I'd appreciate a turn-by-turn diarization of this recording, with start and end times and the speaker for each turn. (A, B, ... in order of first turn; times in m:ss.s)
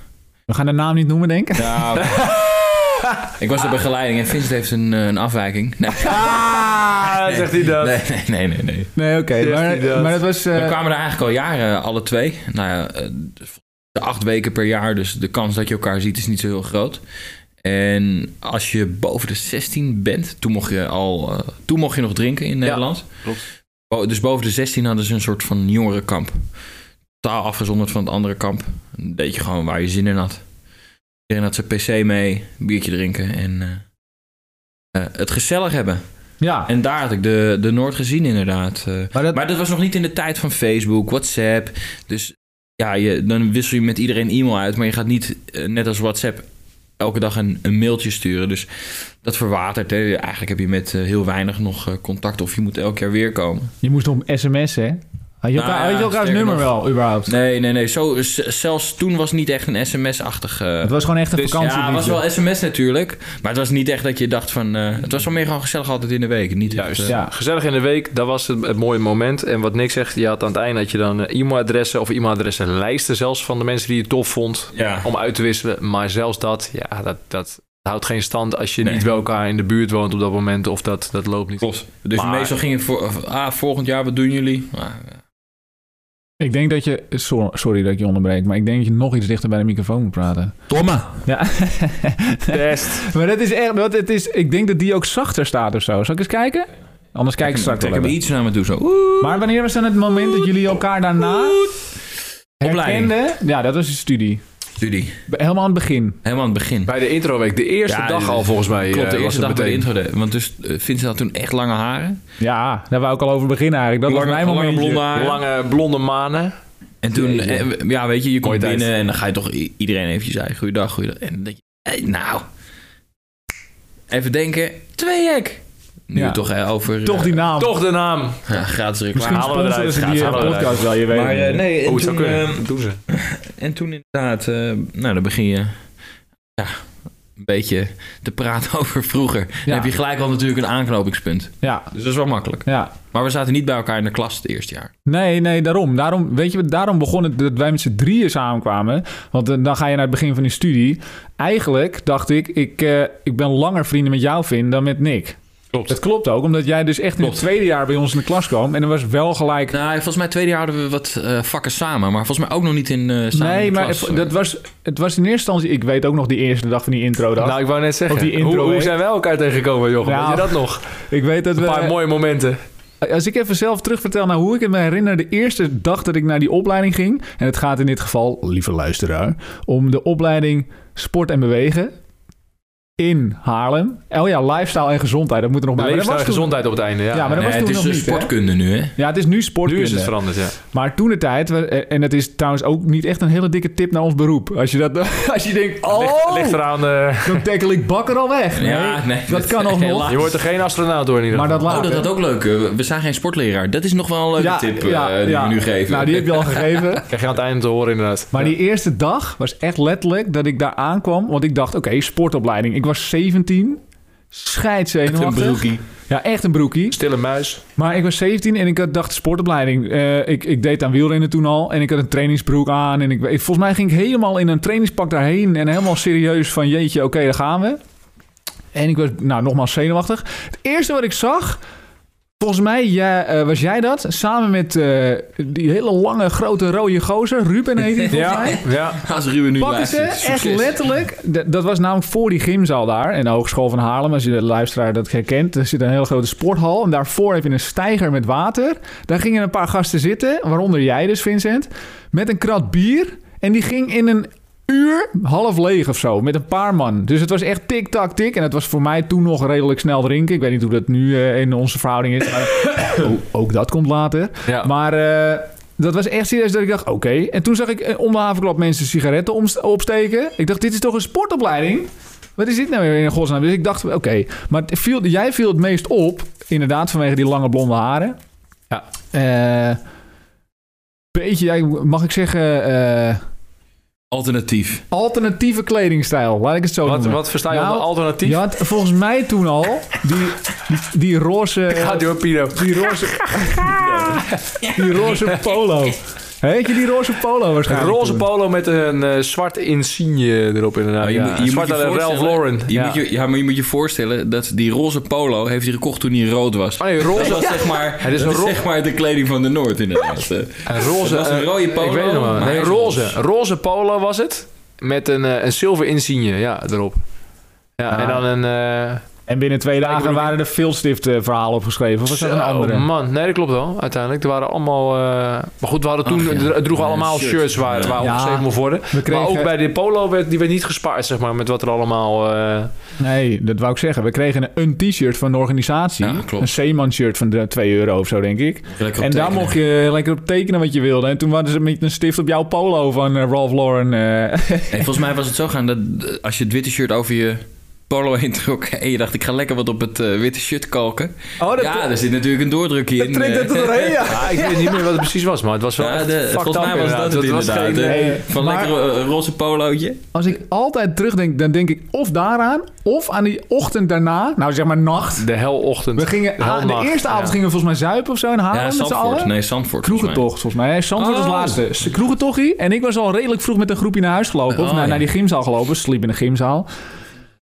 0:00.5-0:02.1 A
0:01.5-0:08.9 B
0:06.0-0:06.9 A
0:06.8-0:08.0 C
0:09.0-0:10.8 A
0:09.4-0:10.2 C
0:10.5-0:17.0 B
0:17.6-0:23.1 B
0:22.6-0:23.4 C
0:23.9-0:26.4 B
0:27.2-0:30.4 B
0:31.3-0:33.8 B
0:34.9-0:36.0 B
0:36.4-0:36.7 A
0:36.7-0:46.4 B
0:39.1-0:39.4 A
0:47.0-0:53.7 B
0:53.8-0:57.3 A
0:55.5-1:00.9 B
1:00.8-1:02.2 A
1:01.5-1:07.1 B
1:06.7-1:22.5 C
1:14.7-1:15.1 B
1:21.6-1:25.2 B
1:26.4-1:38.2 A
1:30.7-1:31.1 B
1:32.5-1:33.0 C
1:37.4-1:39.4 B
1:39.2-1:41.6 A
1:41.3-1:41.8 B
1:42.6-1:44.4 A
1:42.6-1:43.1 B
1:44.8-1:45.2 B
1:45.3-1:46.2 A
1:46.2-1:46.9 B
1:46.8-1:49.8 C
1:47.9-1:52.2 B
1:52.4-1:55.1 A
1:54.0-1:55.4 B
1:55.1-1:56.5 C
1:57.0-2:02.4 B
1:57.2-1:57.6 C
1:58.4-1:58.9 C
2:04.1-2:07.4 B
2:06.1-2:06.4 A
2:07.0-2:07.8 A
2:07.6-2:08.4 C
2:08.5-2:15.7 B
2:09.1-2:11.6 A
2:09.2-2:10.8 C
2:11.8-2:13.0 C
2:16.6-2:16.8 B
2:17.4-2:24.9 B
2:21.6-2:21.9 A
2:22.6-2:22.9 A
2:25.0-2:39.8 A
2:39.7-2:44.3 B
2:43.3-2:49.0 A
2:47.4-2:50.9 C
2:50.0-2:52.0 A
2:51.6-2:52.6 C
2:53.0-3:01.9 A
3:03.0-3:06.5 A
3:05.8-3:07.5 C
3:07.1-3:08.3 A
3:07.3-3:09.0 B
3:09.0-3:10.1 A
3:09.6-3:10.6 C
3:10.7-3:16.7 A
3:15.9-3:17.4 C
3:17.2-3:20.2 A
3:18.5-3:20.3 B
3:20.0-3:21.8 C
3:21.3-3:22.1 A
3:21.7-3:26.8 B
3:24.4-3:27.0 A
3:27.1-3:28.5 C
3:28.3-3:33.8 A
3:34.3-3:37.0 A
3:35.1-3:35.8 B
3:36.9-3:37.6 C
3:37.8-3:47.8 A
3:48.7-3:51.6 A
3:52.4-3:58.6 A
3:58.0-4:00.8 B
3:58.1-3:59.0 C
3:59.6-4:38.2 A
4:39.1-4:39.8 A
4:41.1-4:43.2 A
4:44.1-4:44.8 B
4:44.9-4:58.2 A
4:46.8-4:48.4 C
4:51.7-4:53.4 C
4:53.6-4:55.4 B
4:57.6-5:03.0 C
5:01.0-5:13.2 B
5:06.8-5:08.6 C
5:07.4-5:07.6 A
5:10.6-5:17.0 C
5:17.8-5:19.0 C
5:17.9-5:18.2 A
5:19.3-5:22.9 A
5:19.8-5:20.3 C
5:22.1-5:32.7 C
5:26.0-5:28.1 B
5:28.0-5:29.5 A
5:33.0-5:45.0 A
5:36.0-5:36.5 B
5:38.7-5:39.6 B
5:44.7-5:54.2 B
5:51.4-5:51.9 A
5:53.0-5:55.0 A
5:54.0-5:58.2 C
5:55.8-6:00.0 B
5:57.8-5:58.8 A
6:00.1-6:05.3 A
6:05.2-6:07.4 C
6:06.0-6:16.7 A
6:08.5-6:10.2 B
6:11.0-6:11.6 B
6:14.5-6:15.0 B